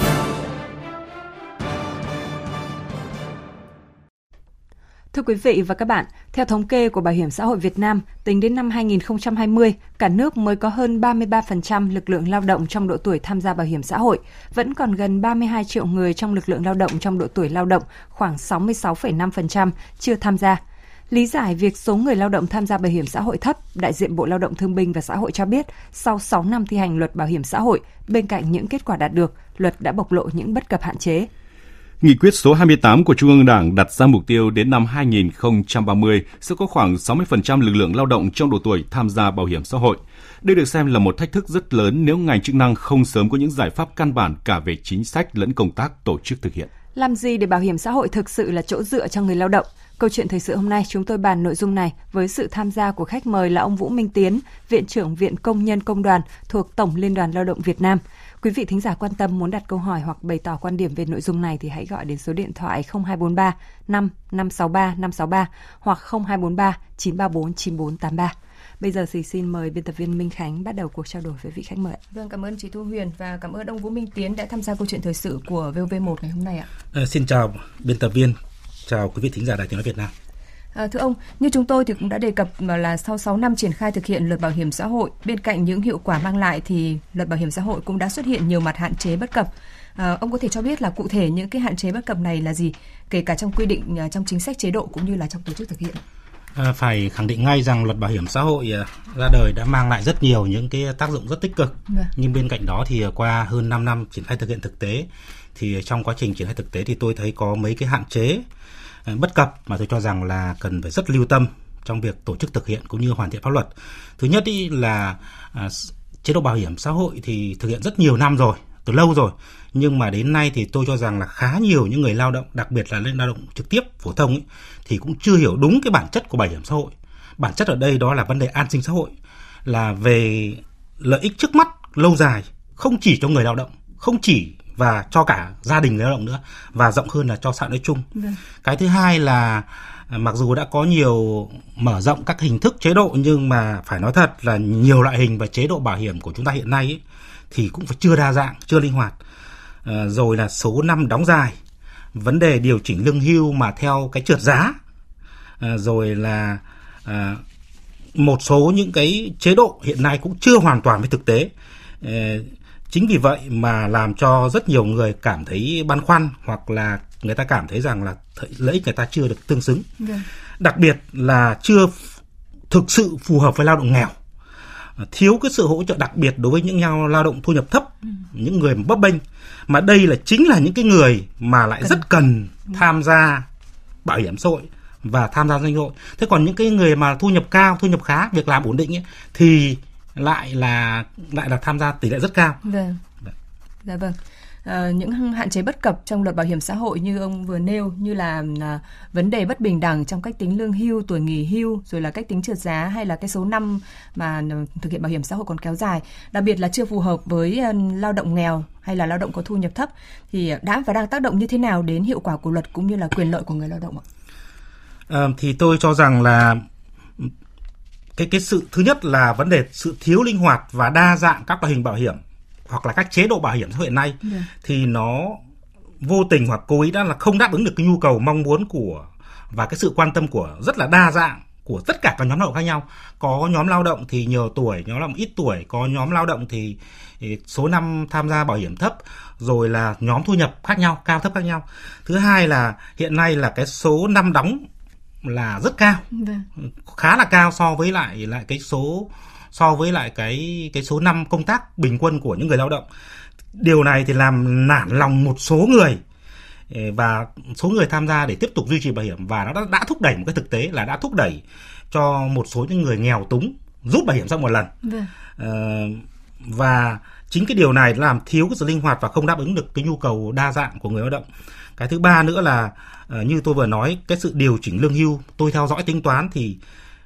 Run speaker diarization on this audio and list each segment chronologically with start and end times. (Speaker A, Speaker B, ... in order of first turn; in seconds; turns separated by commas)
Speaker A: 5.1-31.3, Speaker B: 32.0-46.7, Speaker A: 46.9-72.0, Speaker C: 72.1-76.7, Speaker D: 76.9-80.1, Speaker C: 80.7-96.0, Speaker D: 96.5-108.5, Speaker D: 109.0-129.1, Speaker D: 129.6-138.1, Speaker D: 138.6-149.2, Speaker D: 149.8-151.6, Speaker D: 152.1-154.8, Speaker D: 155.6-157.4, Speaker D: 158.1-169.9, Speaker C: 170.0-170.2, Speaker D: 170.6-172.1, Speaker D: 172.7-174.2, Speaker D: 175.0-183.5, Speaker D: 184.0-192.6, Speaker C: 192.6-193.0, Speaker C: 193.8-214.0, Speaker D: 215.1-216.6, Speaker D: 218.2-225.4, Speaker C: 224.2-224.5, Speaker D: 226.0-244.7, Speaker D: 245.2-246.1, Speaker C: 246.1-246.4, Speaker D: 246.6-252.8, Speaker D: 253.5-256.0, Speaker D: 256.7-264.7, Speaker C: 264.8-265.1, Speaker D: 265.4-271.2, Speaker D: 271.8-276.6